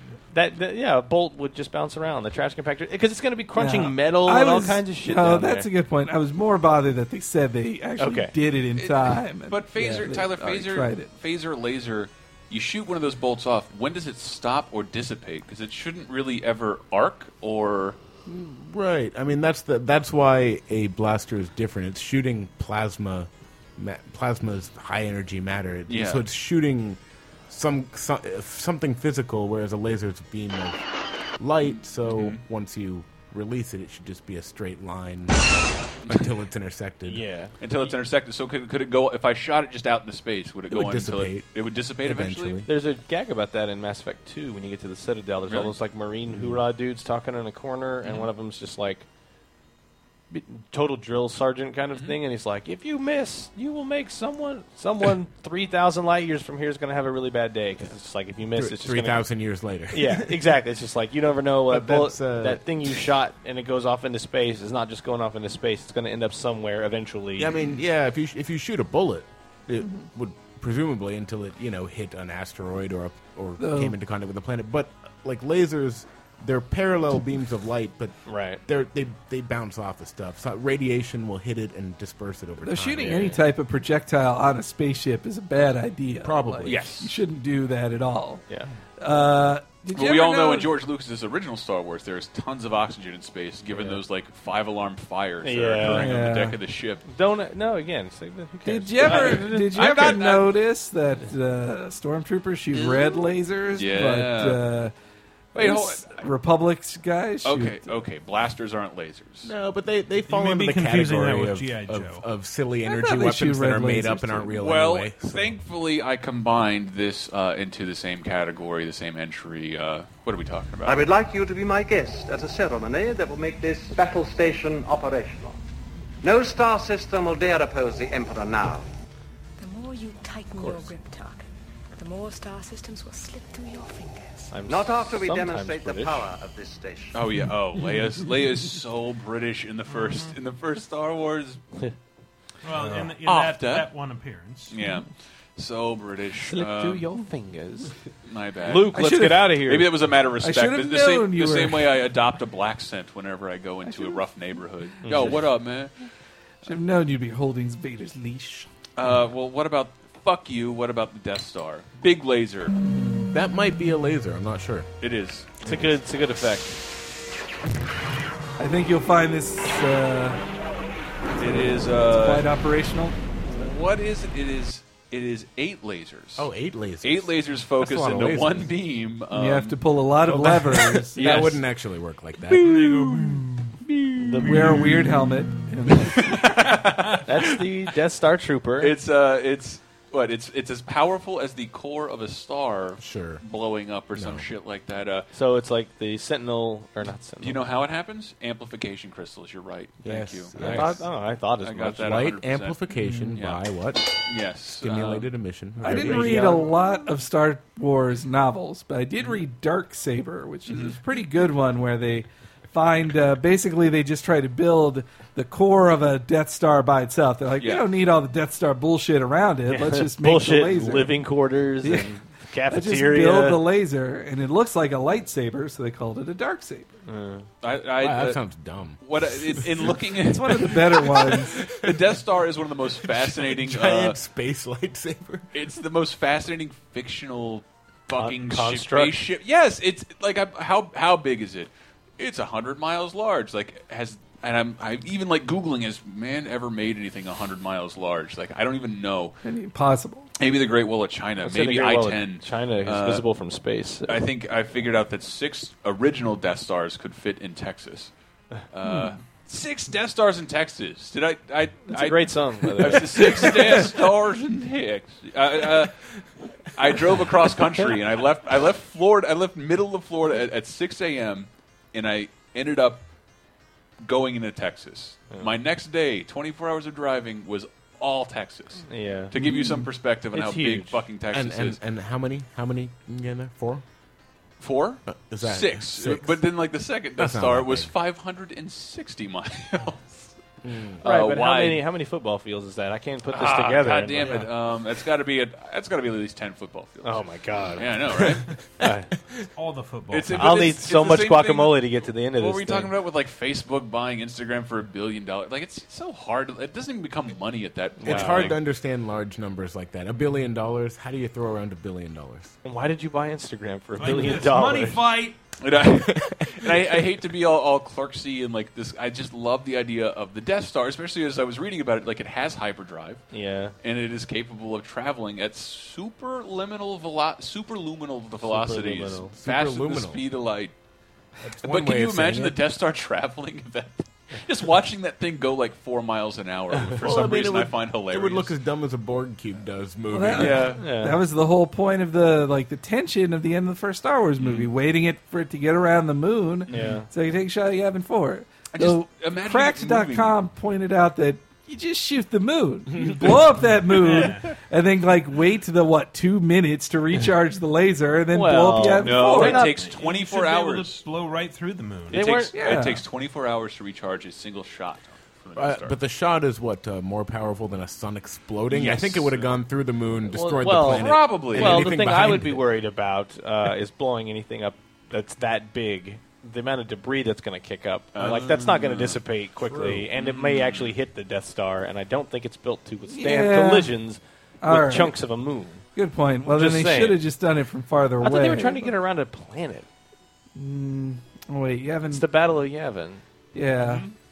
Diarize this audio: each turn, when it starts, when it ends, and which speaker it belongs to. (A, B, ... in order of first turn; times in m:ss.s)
0:00.3-0:05.7 A
0:03.6-0:11.1 B
0:08.0-0:08.3 A
0:08.8-0:18.0 C
0:18.2-0:30.8 D
0:25.9-0:26.2 C
0:31.4-0:35.4 D
0:31.6-0:32.4 C
0:36.0-0:37.2 D
0:37.1-0:37.5 A
0:37.6-0:42.6 C
0:40.7-0:41.5 D
0:42.0-0:42.7 D
0:42.6-0:49.0 A
0:45.5-0:45.7 C
0:48.0-0:48.3 C
0:50.3-0:59.2 A
0:58.5-1:00.5 D
0:59.9-1:07.6 A
1:01.7-1:02.6 D
1:07.4-1:23.4 D
1:13.6-1:14.0 B
1:18.2-1:18.6 A
1:22.6-1:28.4 B
1:23.0-1:23.4 A
1:26.2-1:26.9 D
1:26.6-1:27.1 C
1:29.0-1:30.7 B
1:29.9-1:37.0 C
1:33.7-1:34.0 A
1:35.4-1:36.1 A
1:35.9-1:36.6 B
1:37.0-1:40.2 A
1:38.6-1:44.9 B
1:39.0-1:40.5 C
1:42.8-1:43.1 C
1:43.7-1:44.6 C
1:45.5-1:46.2 C
1:45.5-1:47.9 B
1:47.4-1:49.5 C
1:49.4-1:55.6 D
1:50.3-1:52.2 E
1:52.9-1:54.5 B
1:54.6-2:01.1 C
2:00.8-2:05.6 F
2:06.2-2:08.9 F
2:09.6-2:11.4 G
2:10.6-2:10.9 A
2:12.0-2:14.5 G
2:14.5-2:16.3 A
2:14.7-2:17.2 F
2:17.1-2:21.6 C
2:19.9-2:20.3 E
2:22.6-2:24.7 E
2:23.2-2:23.9 C
2:24.7-2:27.0 C
2:26.4-2:27.9 A
2:28.2-2:35.9 C
2:28.6-2:29.9 A
2:28.9-2:29.6 B
2:30.4-2:31.9 B
2:33.8-2:34.2 B
2:35.0-2:35.5 A
2:36.6-2:38.7 B
2:39.0-2:42.7 C
2:42.8-2:43.3 B
2:43.3-2:44.9 D
2:45.0-2:45.7 C
2:45.6-2:46.8 A
2:48.6-2:50.4 B
2:51.4-2:52.5 C
2:51.4-2:53.2 B
2:53.5-2:56.5 C
2:56.4-2:58.7 D
2:57.0-2:59.8 C
2:59.3-3:01.4 B
3:00.3-3:03.2 D
3:01.2-3:01.6 C
3:02.6-3:03.4 E
3:04.2-3:04.9 A
3:04.4-3:06.3 B
3:04.6-3:04.9 E
3:06.2-3:07.2 C
3:07.2-3:09.0 A
3:08.8-3:15.3 C
3:13.0-3:13.4 D
3:14.1-3:14.4 D
3:15.3-3:17.6 A
3:17.4-3:21.0 C
3:20.0-3:21.0 D
3:20.6-3:22.2 A
3:21.6-3:22.8 C
3:21.9-3:24.1 D
3:23.0-3:23.3 B
3:23.3-3:23.6 C
3:24.2-3:25.3 C
3:24.8-3:26.6 D
3:25.8-3:26.6 A
3:25.8-3:41.2 B
3:30.7-3:31.0 C
3:37.6-3:37.9 C
3:39.7-3:43.6 A
3:41.8-3:42.1 B
3:42.7-3:46.9 B
3:47.0-3:47.5 A
3:47.6-3:48.4 C
3:48.0-3:50.0 D
3:49.0-3:54.2 C
3:50.2-3:51.6 B
3:51.1-3:52.1 D
3:53.0-3:55.5 D
3:55.5-4:09.4 C
3:58.1-3:59.1 A
4:09.4-4:10.3 B
4:10.4-4:13.3 C
4:11.4-4:14.2 A
4:14.0-4:18.1 C
4:18.7-4:26.0 C
4:21.9-4:23.9 A
4:26.7-4:33.0 C
4:34.0-4:41.8 C
4:38.9-4:39.3 A
4:39.4-4:39.8 B
4:40.3-4:41.0 A
4:41.3-4:43.8 D
4:44.6-4:50.2 C
4:45.1-4:46.4 D
4:47.2-4:47.9 D
4:50.6-4:51.0 D
4:51.0-4:51.8 C
4:51.0-4:54.5 A
4:53.3-4:58.5 C
4:57.0-4:59.1 A
4:59.6-5:00.7 E
5:00.1-5:08.6 C
5:00.3-5:02.9 A
5:08.0-5:08.5 A
5:08.0-5:12.5 D
5:12.6-5:15.0 A
5:14.0-5:15.4 E
5:15.6-5:23.2 C
5:16.1-5:16.7 D
5:23.3-5:23.7 A
5:23.8-5:30.7 C
5:28.4-5:29.3 A
5:29.4-5:30.2 D
5:31.4-5:32.6 D
5:31.6-5:38.5 C
5:36.7-5:37.1 A
5:37.0-5:40.8 D
5:40.1-5:59.7 B
5:40.3-5:40.8 C
5:40.8-5:41.2 A
5:44.4-5:44.7 C
5:46.7-5:47.1 A
5:48.7-5:50.4 C
5:52.9-5:53.3 D
5:54.0-5:54.5 E
5:58.3-5:59.9 A
5:59.0-6:01.0 C
5:59.4-6:02.3 E
6:02.1-6:02.5 A
6:02.1-6:06.0 C
6:02.5-6:03.0 B
6:05.6-6:12.6 D
6:10.3-6:25.8 A
6:10.8-6:12.0 C
6:18.1-6:19.2 C
6:20.1-6:20.9 C
6:23.1-6:23.9 B
6:24.6-6:25.2 B
6:25.9-6:29.0 B
6:26.5-6:27.2 A
6:28.2-6:29.9 A
6:30.5-6:32.2 B
6:32.1-6:33.2 A
6:33.5-6:34.0 B
6:33.8-6:34.1 C